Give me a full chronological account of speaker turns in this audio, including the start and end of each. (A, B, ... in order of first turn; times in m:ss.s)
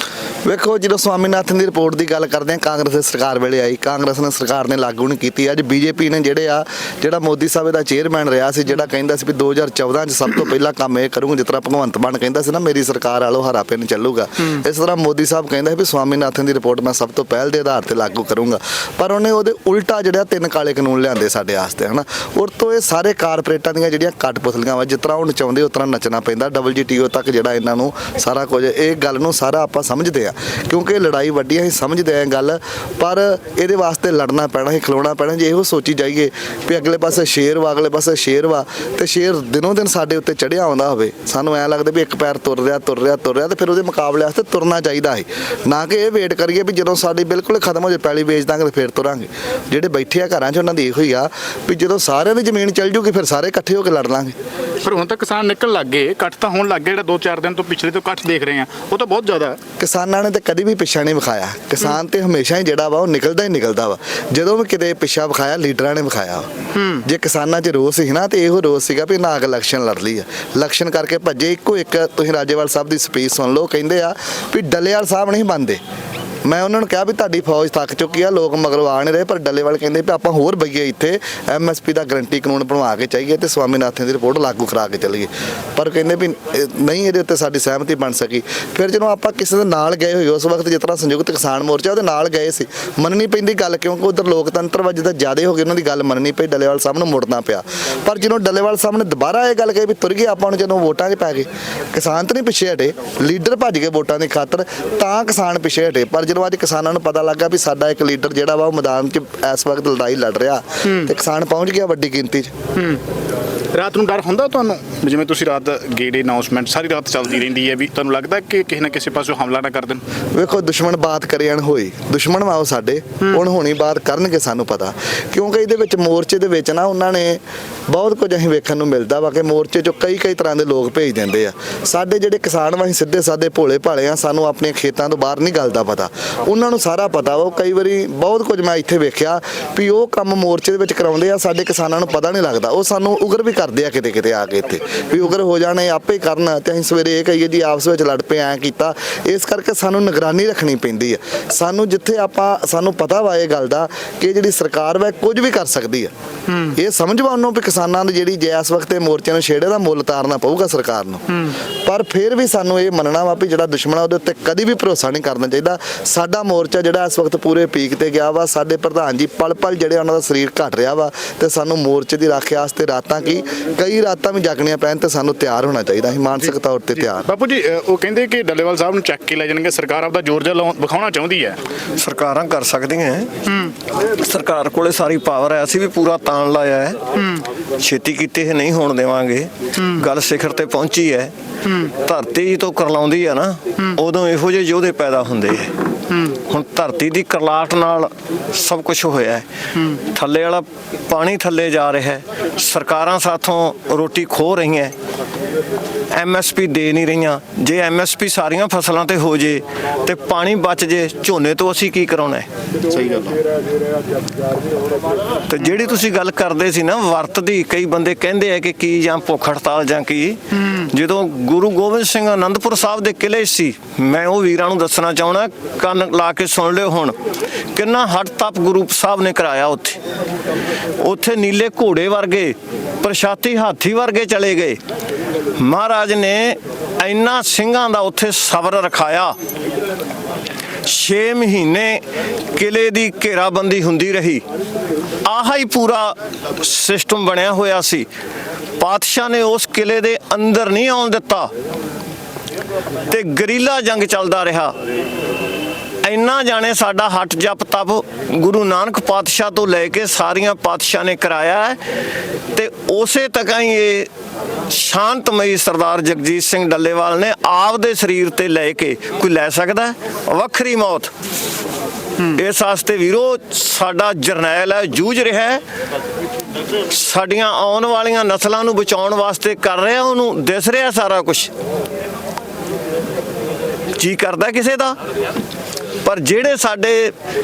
0:00.5-0:54.4 A
0:54.8-0:59.6 B
0:59.8-1:06.5 A
1:06.8-1:07.0 B
1:07.0-1:15.8 A
1:16.5-1:52.5 A
1:50.8-1:51.1 B
1:52.8-1:53.0 B
1:53.7-2:00.0 B
2:00.4-2:36.1 A
2:36.5-2:36.8 B
2:36.8-2:41.2 A
2:41.3-2:41.6 B
2:41.9-2:57.3 A
2:57.1-3:01.6 B
3:02.0-3:03.3 C
3:03.5-3:03.7 B
3:04.2-3:07.0 C
3:07.2-3:07.4 B
3:07.8-3:11.3 C
3:09.8-3:10.1 B
3:11.6-3:11.9 B
3:12.0-3:15.7 C
3:16.1-3:16.4 B
3:16.5-3:19.4 C
3:19.8-3:20.0 B
3:20.1-3:24.9 C
3:26.1-3:32.5 C
3:32.9-3:33.4 B
3:35.5-3:47.2 C
3:40.6-3:40.9 B
3:47.8-3:50.0 C
3:51.0-3:54.8 C
3:55.6-3:59.4 C
4:00.9-4:02.0 C
4:02.6-4:04.4 C
4:05.2-4:08.1 C
4:08.8-4:11.5 C
4:13.1-4:14.8 C
4:16.0-4:21.8 C
4:22.5-4:24.1 C
4:24.7-4:31.1 C
4:32.3-4:35.6 C
4:36.9-4:41.5 C
4:44.0-4:45.0 C
4:46.0-4:47.1 C